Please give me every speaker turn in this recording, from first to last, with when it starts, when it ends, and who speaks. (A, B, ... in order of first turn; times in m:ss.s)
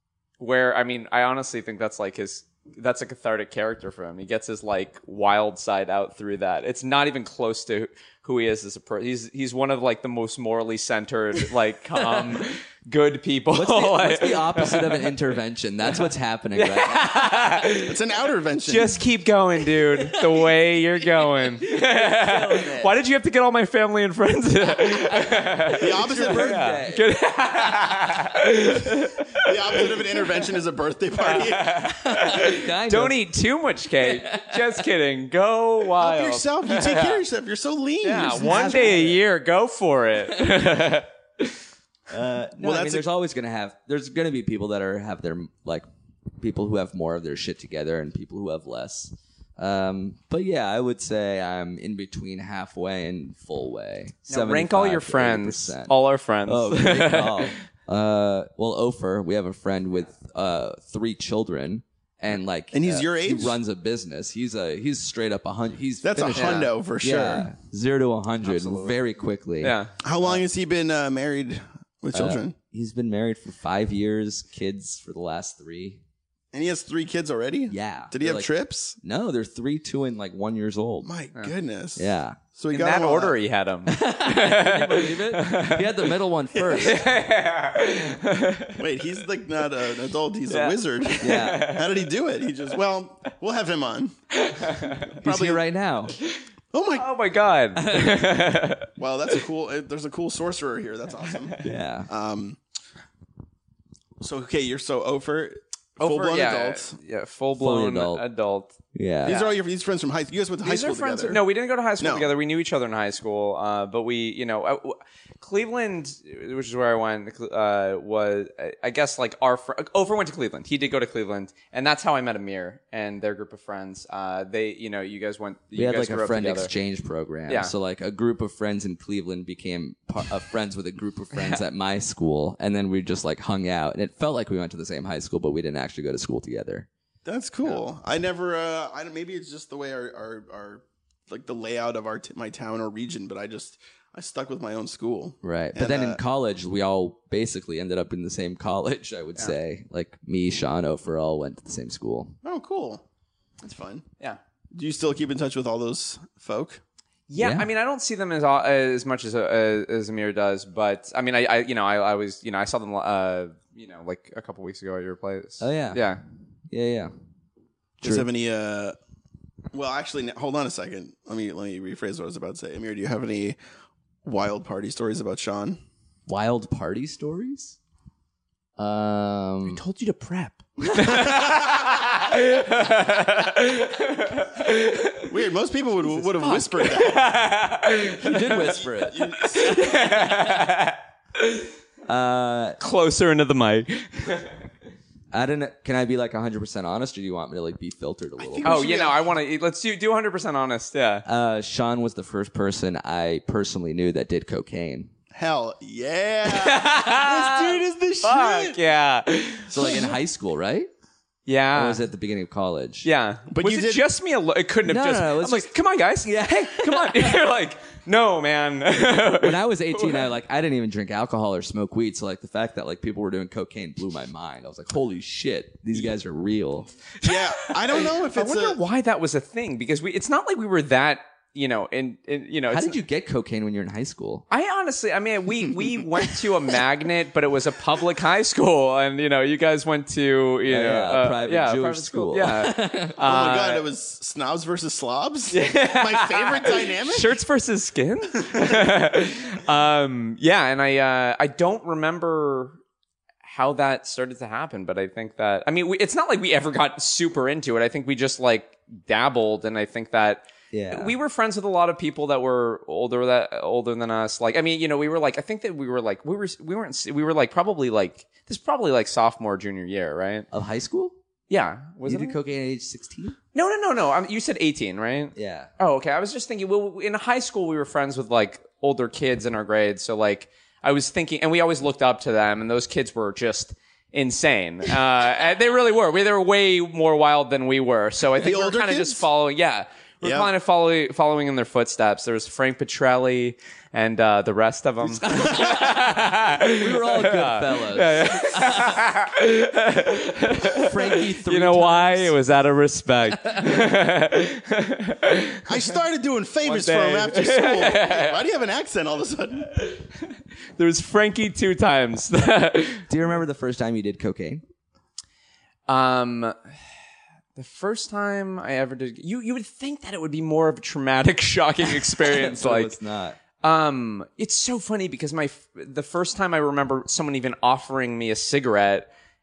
0:00.4-0:15.1 A
0:13.5-0:17.7 B
0:16.6-0:18.0 A
0:17.8-0:19.0 C
0:18.6-0:30.3 A
0:19.9-0:20.5 B
0:21.0-0:22.9 B
0:25.1-0:27.1 B
0:25.8-0:26.6 C
0:29.4-0:31.9 C
0:31.2-0:37.2 A
0:32.0-0:33.2 B
0:34.0-0:34.8 B
0:36.0-0:38.9 C
0:38.0-0:41.5 A
0:38.2-0:39.2 B
0:42.1-0:45.8 B
0:42.6-0:43.0 C
0:46.4-0:55.9 B
0:54.3-0:57.6 A
0:56.4-1:10.4 B
1:02.7-1:03.6 C
1:06.0-1:07.5 C
1:06.3-1:06.7 A
1:08.4-1:09.0 A
1:09.6-1:09.9 A
1:10.0-1:12.5 C
1:12.1-1:16.0 B
1:16.5-1:19.0 C
1:17.7-1:18.5 B
1:19.0-1:21.1 B
1:21.0-1:23.4 C
1:22.0-1:22.4 B
1:22.7-1:26.1 A
1:23.9-1:27.0 B
1:26.5-1:27.0 C
1:26.8-1:28.8 A
1:28.8-1:34.1 C
1:30.5-1:32.1 A
1:31.2-1:31.7 B
1:34.3-1:35.2 A
1:35.2-1:36.1 B
1:35.2-1:35.6 C
1:36.7-1:37.1 C
1:37.0-1:38.9 A
1:37.8-1:38.2 B
1:39.0-1:41.6 C
1:41.2-1:41.6 A
1:41.6-1:42.1 B
1:42.1-1:42.6 C
1:44.2-1:47.0 C
1:46.0-1:49.6 A
1:47.6-1:48.2 B
1:48.9-1:49.3 B
1:49.2-1:51.4 C
1:50.6-2:06.7 A
1:52.0-1:52.3 C
2:05.7-2:16.9 B
2:11.3-2:11.6 A
2:17.2-2:26.2 C
2:25.4-2:32.4 B
2:32.4-2:33.0 C
2:33.6-2:34.0 C
2:34.7-2:36.8 C
2:37.3-2:46.2 A
2:37.4-2:37.7 B
2:45.6-2:46.0 B
2:46.7-2:47.1 B
2:48.0-2:49.0 C
2:48.0-2:48.3 B
2:49.7-2:53.6 C
2:54.2-2:55.8 C
2:56.3-2:57.8 B
2:58.8-2:59.8 B
2:59.6-3:05.3 A
3:01.0-3:01.9 C
3:05.3-3:07.3 C
3:06.1-3:08.9 A
3:08.1-3:09.6 B
3:09.0-3:09.9 C
3:09.4-3:11.7 A
3:12.1-3:12.8 B
3:12.8-3:14.6 A
3:15.3-3:18.8 B
3:18.4-3:19.2 C
3:18.6-3:21.2 A
3:21.2-3:25.1 B
3:25.3-3:28.8 C
3:26.5-3:30.1 A
3:29.7-3:30.9 B
3:29.8-3:30.1 C
3:31.5-3:32.0 A
3:31.7-3:33.1 B
3:33.0-3:40.3 A
3:33.5-3:34.0 C
3:34.8-3:35.7 B
3:36.2-3:37.4 B
3:39.4-3:46.9 B
3:47.2-3:53.0 A
3:47.2-3:48.8 C
3:52.7-3:54.4 B
3:54.5-4:03.8 A
4:00.7-4:03.2 B
4:03.2-4:07.4 C
4:05.5-4:12.8 A
4:08.5-4:08.7 C
4:13.4-4:30.4 A
4:20.7-4:21.1 B
4:30.5-4:31.2 B
4:31.5-4:32.4 A
4:32.0-4:33.4 B
4:33.5-5:05.6 A
4:35.3-4:35.7 B
4:48.4-4:49.3 C
4:50.2-4:50.5 C
4:55.0-4:59.1 B
5:00.7-5:02.4 B
5:03.3-5:03.9 B
5:05.6-5:09.7 C
5:06.6-5:08.4 A
5:09.8-5:13.0 A
5:13.1-5:14.6 B
5:15.9-5:16.5 A
5:17.6-5:22.9 A
5:22.2-5:23.4 B
5:23.6-5:29.1 A